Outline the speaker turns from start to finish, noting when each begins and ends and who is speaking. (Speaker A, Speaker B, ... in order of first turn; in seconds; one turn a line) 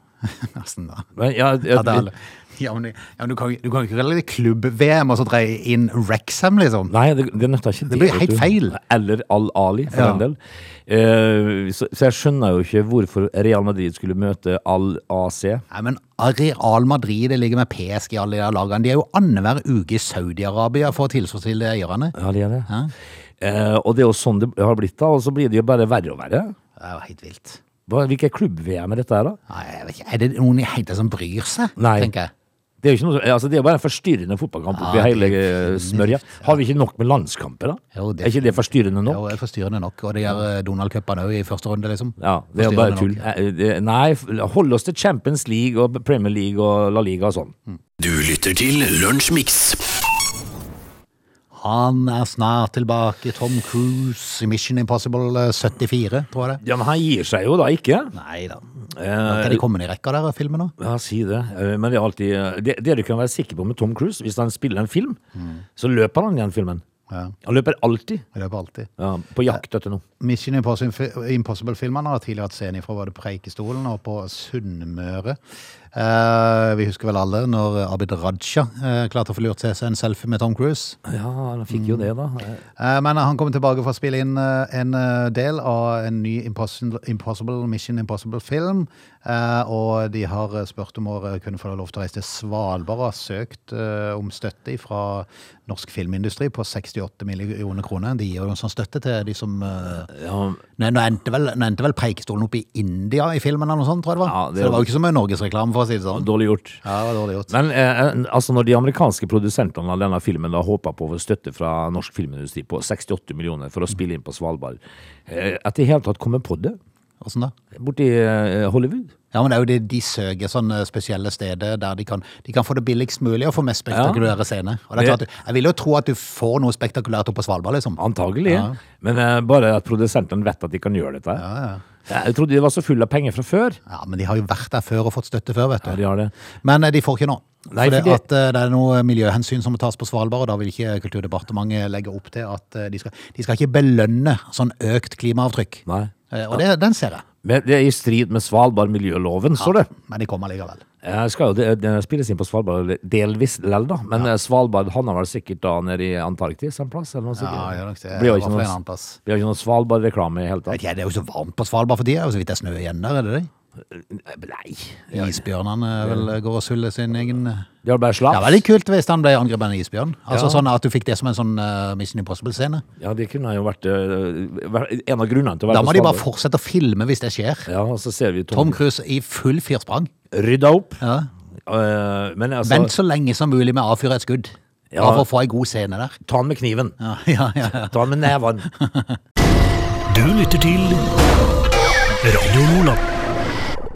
Speaker A: 0.2-1.1
Speaker B: 1.1-2.1
Speaker A: 1.6-6.9
Speaker B: 6.9-15.6
Speaker A: 7.9-8.8
Speaker A: 9.9-10.2
Speaker A: 15.7-22.1
Speaker B: 22.1-22.7
Speaker B: 23.4-26.5
Speaker A: 26.8-27.6
Speaker B: 27.9-29.4
Speaker A: 29.5-32.3
Speaker B: 31.8-32.1
Speaker B: 32.8-39.3
Speaker A: 34.7-36.6
Speaker A: 37.9-43.2
Speaker B: 42.2-47.5
Speaker C: 48.0-49.9
Speaker A: 51.5-56.6
Speaker B: 56.6-58.1
Speaker A: 58.1-58.6
Speaker B: 58.9-59.6
Speaker A: 59.2-60.7
Speaker B: 60.8-65.2
Speaker A: 65.3-65.6
Speaker B: 65.8-66.8
Speaker B: 67.4-68.2
Speaker A: 68.3-68.9
Speaker B: 69.0-70.0
Speaker A: 70.2-75.4
Speaker A: 75.9-81.0
Speaker B: 81.0-82.6
Speaker A: 81.7-82.1
Speaker A: 82.8-100.1
Speaker B: 100.1-100.6
Speaker A: 100.8-106.3
Speaker B: 104.2-104.9
Speaker B: 106.2-106.8
Speaker A: 106.8-107.5
Speaker B: 107.5-116.8
Speaker A: 117.2-117.5
Speaker B: 117.7-119.1
Speaker A: 119.3-128.8
Speaker B: 123.9-124.3
Speaker B: 128.0-131.4
Speaker A: 131.3-131.8
Speaker B: 132.1-133.8
Speaker A: 133.9-136.0
Speaker B: 135.8-136.3
Speaker A: 136.6-147.2
Speaker B: 137.7-138.2
Speaker B: 145.8-146.6
Speaker B: 147.4-149.9
Speaker A: 149.6-150.8
Speaker B: 151.0-160.8
Speaker A: 157.4-159.2
Speaker A: 160.7-163.5
Speaker B: 163.9-165.4
Speaker A: 165.1-167.7
Speaker B: 166.0-166.3
Speaker B: 167.8-168.6
Speaker A: 168.3-172.8
Speaker B: 170.3-170.6
Speaker B: 173.0-176.2
Speaker A: 175.7-177.7
Speaker B: 177.7-178.8
Speaker A: 178.5-180.1
Speaker B: 180.3-181.0
Speaker A: 181.0-181.3
Speaker B: 181.7-182.9
Speaker A: 182.6-186.2
Speaker B: 184.9-185.2
Speaker B: 186.2-186.9
Speaker A: 187.0-189.2
Speaker B: 187.6-188.7
Speaker C: 190.1-191.1
Speaker C: 192.2-193.0